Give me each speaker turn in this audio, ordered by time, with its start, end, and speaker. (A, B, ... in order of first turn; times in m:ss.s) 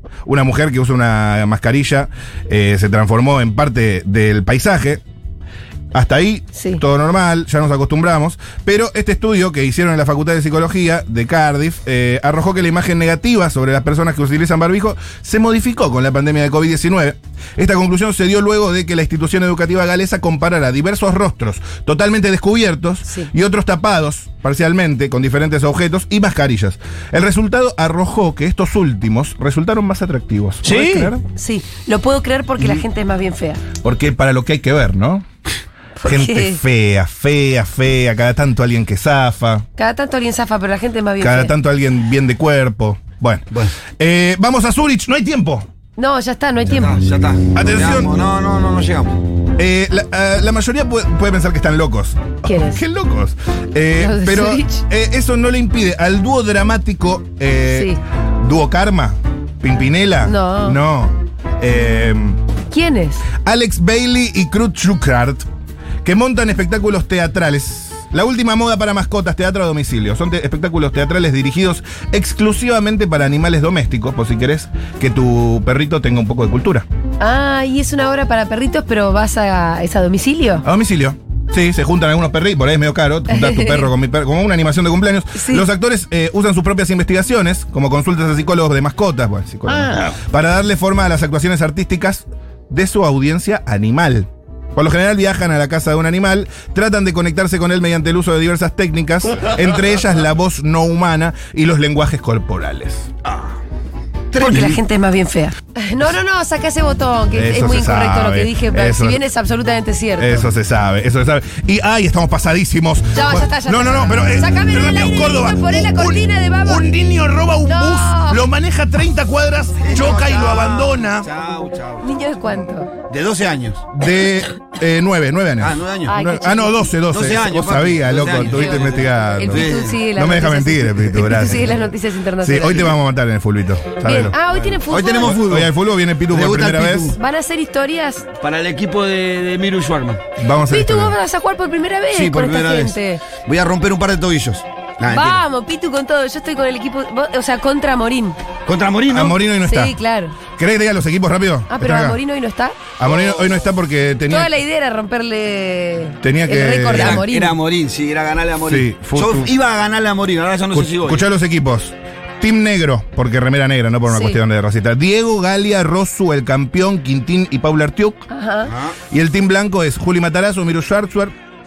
0:00.2-0:05.0 A
0:05.9-0:31.2 A
0:06.6-0:06.8 B
0:30.6-0:31.1 C
0:31.3-0:33.6 B
0:33.8-0:35.2 A
0:36.0-0:36.6 B
0:36.0-0:39.7 A
0:39.8-0:41.5 B
0:41.2-0:45.7 A
0:43.5-0:43.8 C
0:46.0-0:47.0 B
0:46.7-0:49.2 C
0:47.5-0:48.2 A
0:49.6-1:02.4 A
0:52.4-0:52.8 B
0:54.0-0:54.8 B
0:57.7-0:58.0 B
1:00.2-1:00.8 B
1:02.7-1:03.2 B
1:03.4-1:05.5 A
1:06.0-1:16.9 A
1:17.2-1:20.7 B
1:20.6-1:43.1 A
1:23.3-1:23.9 B
1:25.3-1:25.7 B
1:44.3-1:44.8 C
1:44.4-1:50.5 B
1:47.3-1:49.2 A
1:50.2-2:01.3 A
1:53.1-1:56.9 B
1:57.6-1:58.5 B
1:59.8-2:02.2 C
2:02.0-2:02.9 B
2:03.1-2:03.9 C
2:03.9-2:14.4 A
2:05.6-2:06.2 C
2:06.1-2:06.8 B
2:07.1-2:10.0 C
2:09.4-2:12.9 B
2:14.0-2:15.4 B
2:14.5-2:15.8 C
2:15.2-2:17.2 A
2:16.3-2:17.2 C
2:17.1-2:18.3 B
2:18.4-2:20.2 C
2:20.4-2:21.2 A
2:20.7-2:23.2 B
2:22.1-2:25.4 C
2:25.0-2:28.4 B
2:28.7-2:29.4 C
2:29.1-2:30.0 A
2:29.6-2:30.4 B
2:30.6-2:32.2 A
2:31.7-2:32.8 B
2:33.0-2:34.5 A
2:33.0-2:33.5 C
2:34.3-2:37.6 B
2:36.2-2:37.3 A
2:36.9-2:41.3 C
2:38.7-2:39.5 A
2:40.7-2:48.3 A
2:44.1-2:44.4 B
2:48.3-2:48.7 B
2:48.7-2:49.0 C
2:49.1-2:51.3 A